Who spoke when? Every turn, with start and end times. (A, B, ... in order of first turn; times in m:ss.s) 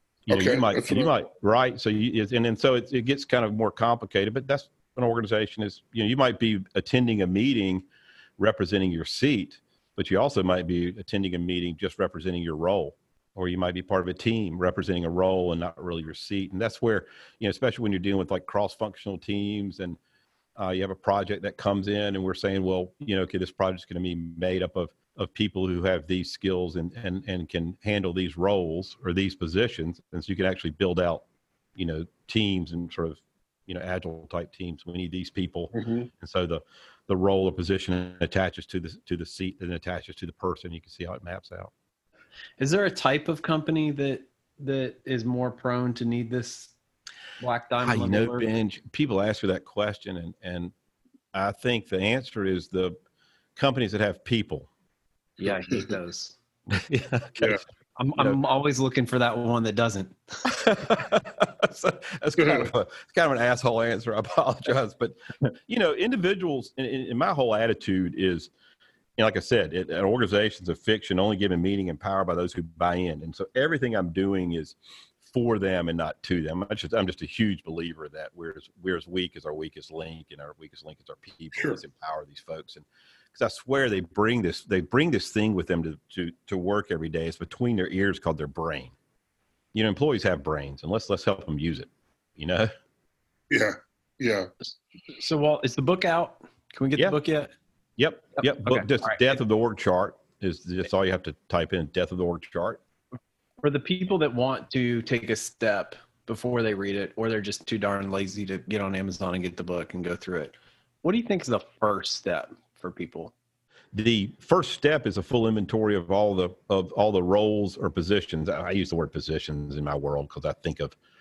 0:00.3-0:07.8 A
0:00.3-0:01.1 B
0:08.4-0:20.0 A
0:20.6-0:31.2 A
0:31.8-0:41.7 A
0:35.7-0:36.1 B
0:42.6-0:46.7 C
0:47.4-0:48.5 C
0:47.8-0:50.7 A
0:51.3-0:53.0 A
0:53.6-0:54.7 A
0:55.4-0:56.4 C
0:56.7-0:57.6 A
0:58.0-1:00.4 C
1:00.4-1:08.5 A
1:02.4-1:02.7 B
1:09.2-1:28.9 A
1:29.7-1:32.7 A
1:33.5-1:34.5 B
1:34.6-1:37.5 C
1:38.0-1:42.8 A
1:38.6-1:39.2 C
1:43.6-1:53.3 C
1:53.9-2:01.0 A